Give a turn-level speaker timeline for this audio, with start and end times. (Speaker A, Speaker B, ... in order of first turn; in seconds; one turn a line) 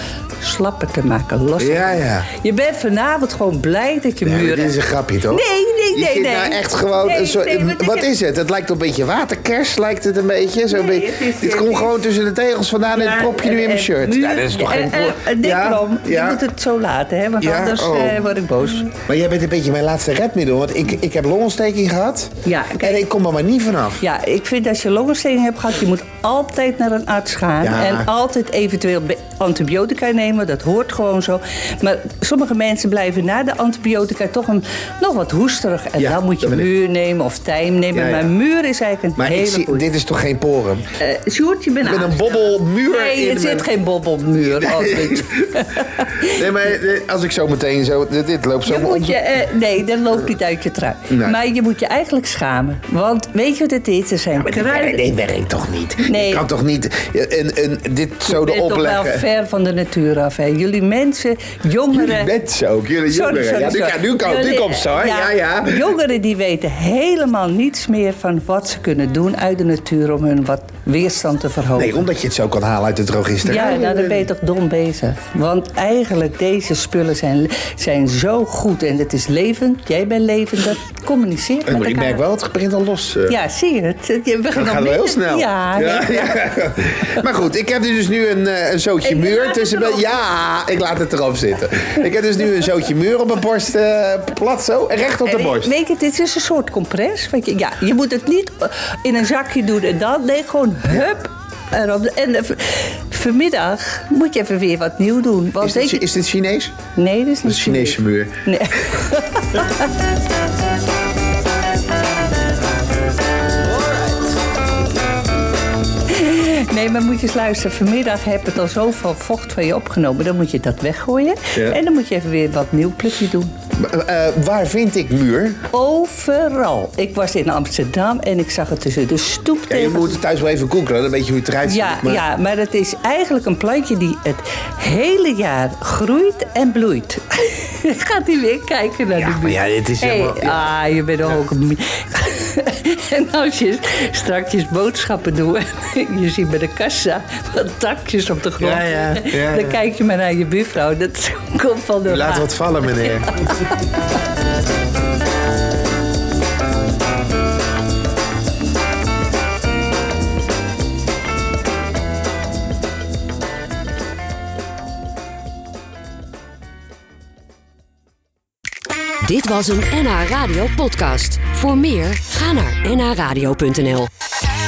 Speaker A: 0.4-4.8
Speaker B: 1.6-2.3
Speaker B: 4.2-16.4
Speaker A: 5.3-8.1
Speaker A: 10.7-12.0
Speaker A: 12.9-18.9
Speaker B: 17.4-18.3
Speaker B: 18.9-24.0
Speaker A: 22.4-23.0
Speaker A: 24.0-39.9
Speaker B: 27.6-28.1
Speaker B: 36.0-36.7
Speaker B: 37.9-38.3
Speaker B: 39.2-40.8
Speaker A: 41.0-46.5
Speaker B: 41.8-43.7
Speaker B: 44.5-49.2
Speaker A: 48.6-55.0
Speaker B: 51.1-51.4
Speaker B: 54.4-59.2
Speaker A: 56.0-56.4
Speaker A: 58.2-62.3
Speaker B: 61.9-65.9
Speaker A: 63.1-72.0
Speaker B: 71.7-74.3
Speaker A: 73.4-82.2
Speaker B: 81.7-83.4
Speaker A: 83.3-86.5
Speaker B: 84.5-95.7
Speaker A: 89.0-90.1
Speaker A: 95.2-106.1
Speaker B: 105.6-106.7
Speaker A: 106.9-109.9
Speaker B: 107.4-108.4
Speaker A: 116.1-123.5
Speaker B: 123.8-125.6
Speaker A: 125.7-130.2
Speaker B: 129.7-132.2
Speaker A: 131.6-153.7
Speaker B: 139.1-140.7
Speaker B: 148.6-149.8
Speaker B: 152.1-153.4
Speaker C: 169.2-174.1